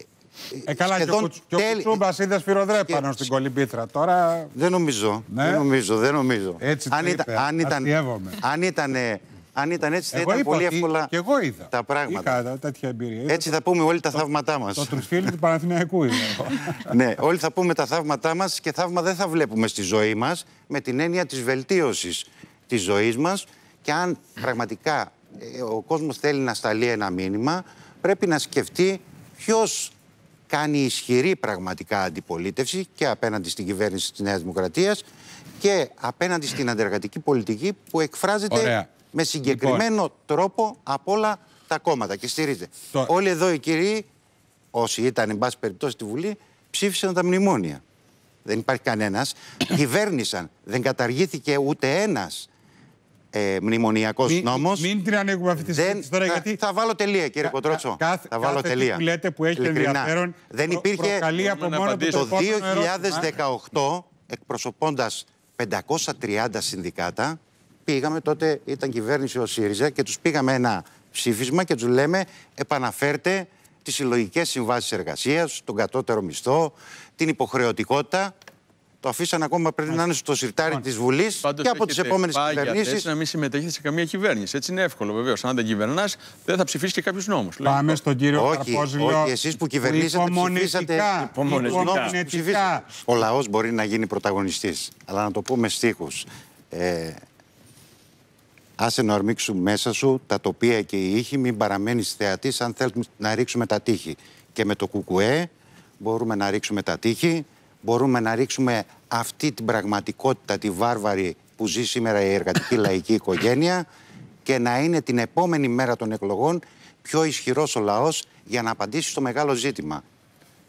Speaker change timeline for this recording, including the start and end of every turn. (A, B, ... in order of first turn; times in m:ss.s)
0:00.5-0:02.0 A
0:00.6-0:04.5 B
0:02.9-0:03.3 A
0:04.5-0:11.1 A
0:05.3-0:05.6 B
0:06.6-0:08.4 B
0:10.1-0:13.5 B
0:11.7-0:12.4 A
0:13.3-0:15.3 A
0:14.8-0:16.9 B
0:16.6-0:29.9 A
0:30.5-0:35.0 A
0:35.6-0:44.1 A
0:38.5-0:38.9 B
0:39.5-0:39.8 B
0:44.7-0:47.8 A
0:48.4-0:52.5 A
0:53.3-0:54.9 A
0:54.2-0:56.6 B
0:55.6-0:59.0 A
0:57.4-1:03.3 B
0:59.6-1:01.3 A
1:01.4-1:02.4 C
1:02.1-1:18.3 A
1:19.0-1:23.1 A
1:21.4-1:28.0 C
1:27.6-1:32.9 B
1:28.3-1:37.2 A
1:31.3-1:32.2 C
1:38.8-1:53.9 A
1:54.4-2:00.0 A